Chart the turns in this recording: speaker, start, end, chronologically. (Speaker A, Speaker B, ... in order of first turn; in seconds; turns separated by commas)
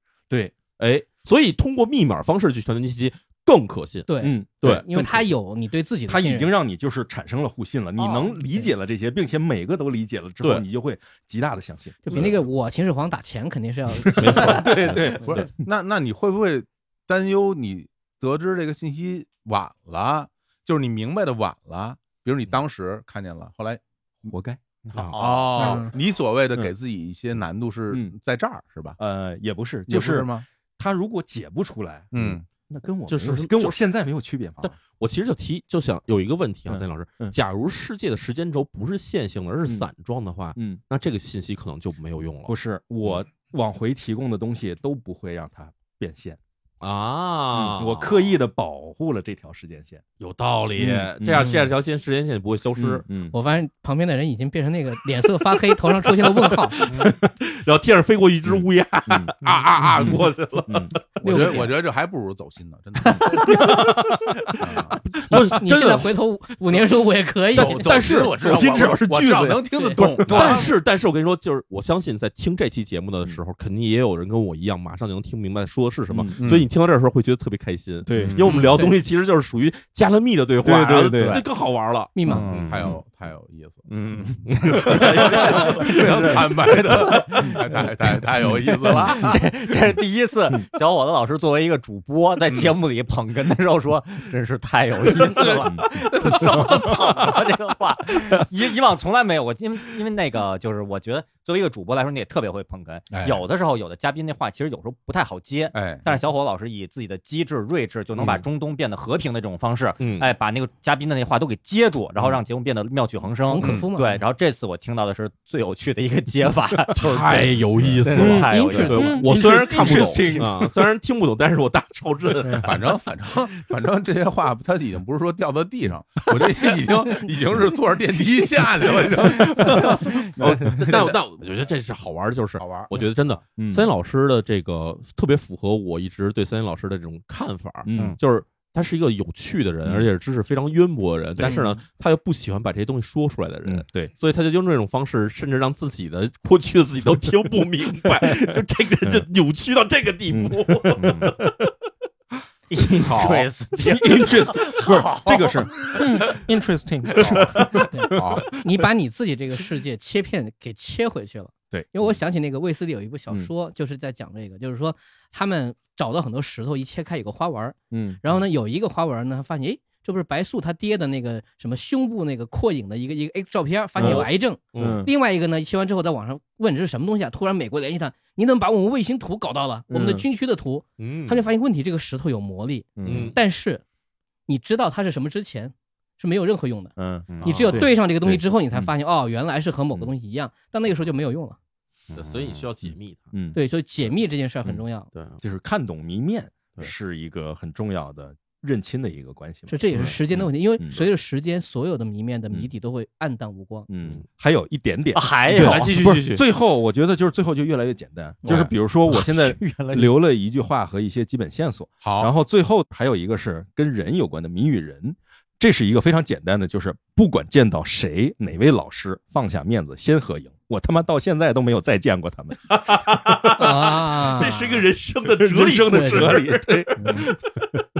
Speaker A: 0.8-4.1, Speaker B: 4.1-6.5, Speaker C: 4.2-5.3, Speaker A: 4.6-4.8, Speaker C: 6.0-12.4, Speaker D: 8.0-8.3, Speaker B: 12.0-14.6, Speaker C: 13.9-15.5, Speaker A: 14.2-15.5, Speaker E: 14.6-24.3, Speaker C: 24.2-24.6, Speaker D: 24.9-25.9, Speaker A: 24.9-25.3, Speaker E: 25.1-29.0, Speaker B: 25.6-25.9, Speaker C: 27.9-28.1, Speaker C: 29.0-34.7, Speaker E: 29.9-30.4, Speaker E: 32.1-32.5, Speaker A: 33.1-33.8, Speaker A: 34.6-43.1, Speaker C: 36.7-37.3, Speaker C: 40.5-40.8, Speaker C: 42.5-46.4, Speaker A: 46.8-48.2, Speaker C: 47.5-50.0, Speaker A: 50.2-53.0, Speaker C: 50.8-51.5, Speaker B: 51.4-51.7, Speaker C: 52.8-53.4, Speaker B: 53.3-56.8, Speaker A: 56.9-61.5, Speaker C: 56.9-57.3, Speaker C: 58.5-59.3, Speaker E: 59.4-60.2, Speaker C: 60.0-60.9, Speaker B: 61.2-61.7, Speaker E: 61.2-63.5, Speaker A: 63.2-66.1, Speaker C: 63.3-64.5, Speaker E: 64.6-65.0, Speaker B: 65.3-67.8, Speaker A: 67.5-69.0, Speaker E: 67.5-70.8, Speaker C: 67.8-70.7, Speaker A: 70.0-82.8, Speaker C: 76.1-76.4, Speaker E: 76.4-76.7, Speaker C: 78.0-78.7, Speaker E: 78.2-78.7, Speaker B: 78.7-79.0, Speaker C: 80.6-81.4, Speaker D: 81.2-81.4, Speaker B: 82.1-82.5, Speaker D: 82.2-82.9, Speaker E: 82.6-89.4, Speaker D: 83.9-86.3, Speaker A: 84.4-86.4, Speaker D: 86.8-87.5, Speaker D: 88.9-120.4, Speaker E: 92.5-92.7, Speaker E: 95.2-95.7, Speaker C: 95.6-96.9, Speaker E: 103.1-103.4, Speaker E: 105.7-106.2, Speaker A: 110.0-110.3, Speaker B: 113.4-114.2, Speaker E: 113.6-113.9, Speaker A: 116.9-122.8, Speaker C: 118.2-120.8, Speaker B: 118.5-118.9, Speaker E: 122.6-131.2, Speaker A: 129.6-151.6, Speaker C: 129.7-130.7, Speaker E: 132.6-133.1, Speaker C: 133.6-133.9, Speaker C: 137.8-138.2, Speaker C: 139.8-140.1, Speaker C: 143.6-144.1, Speaker C: 148.1-149.2, Speaker C: 150.3-151.4, Speaker D: 152.7-156.1, Speaker E: 153.0-153.5, Speaker C: 153.8-158.4, Speaker E: 157.2-157.6, Speaker A: 157.3-157.8, Speaker B: 157.8-183.8, Speaker E: 158.1-158.5, Speaker C: 161.7-162.2, Speaker C: 167.9-168.4, Speaker A: 174.0-175.1, Speaker C: 174.0-175.1, Speaker C: 179.9-180.3, Speaker A: 181.0-181.4, Speaker C: 183.0-183.3, Speaker A: 183.0-183.4, Speaker B: 184.5-191.6, Speaker C: 186.9-188.9, Speaker D: 187.3-187.8, Speaker A: 187.4-187.8, Speaker D: 192.1-192.7, Speaker A: 192.1-193.3, Speaker C: 192.8-193.6, Speaker B: 193.5-195.1, Speaker A: 195.1-195.4, Speaker C: 195.4-201.1, Speaker B: 199.7-203.9, Speaker A: 199.9-200.4, Speaker C: 203.9-227.1, Speaker D: 205.1-205.9, Speaker A: 205.5-206.4, Speaker E: 208.4-208.7, Speaker D: 208.5-210.1, Speaker E: 212.0-212.3, Speaker A: 222.7-227.5, Speaker B: 223.6-224.7, Speaker B: 225.9-226.3, Speaker B: 227.0-227.2